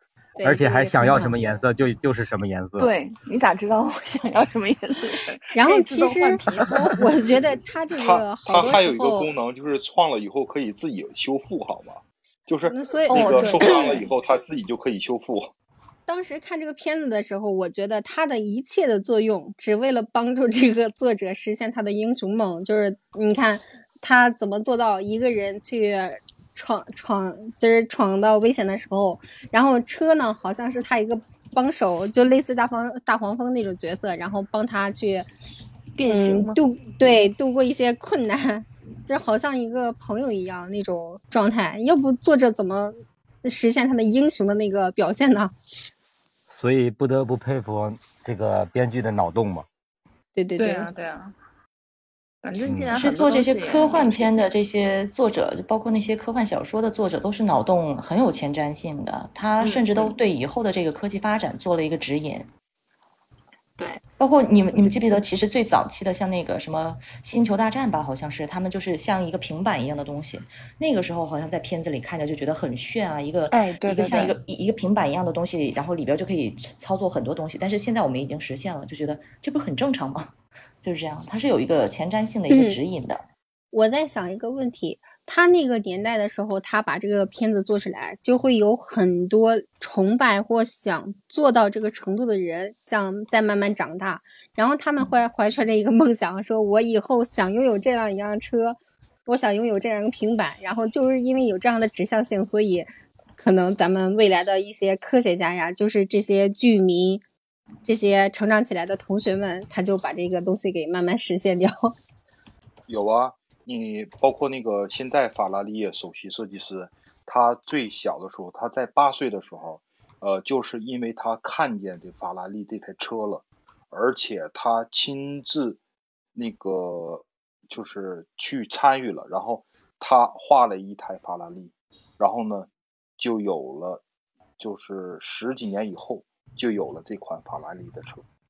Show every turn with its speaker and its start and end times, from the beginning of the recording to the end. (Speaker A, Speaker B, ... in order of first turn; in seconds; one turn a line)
Speaker A: 0.4-1.4
Speaker B: 0.4-2.9
Speaker C: 2.8-7.0
Speaker A: 5.5-9.3
Speaker D: 7.9-15.5
Speaker A: 12.7-14.0
Speaker C: 13.1-14.1
Speaker A: 16.1-35.3
Speaker C: 36.0-36.6
Speaker A: 36.1-45.5
Speaker B: 46.5-49.7
Speaker A: 50.4-50.9
Speaker C: 50.6-51.4
Speaker C: 52.4-54.3
Speaker B: 52.7-53.0
Speaker E: 53.0-62.5
Speaker C: 59.6-60.2
Speaker E: 64.2-83.3
Speaker C: 73.5-74.3
Speaker A: 82.5-82.8
Speaker A: 83.7-107.2
Speaker A: 107.8-111.9
Speaker D: 112.9-125.8
Speaker D: 126.3-134.0
Speaker D: 134.6-138.2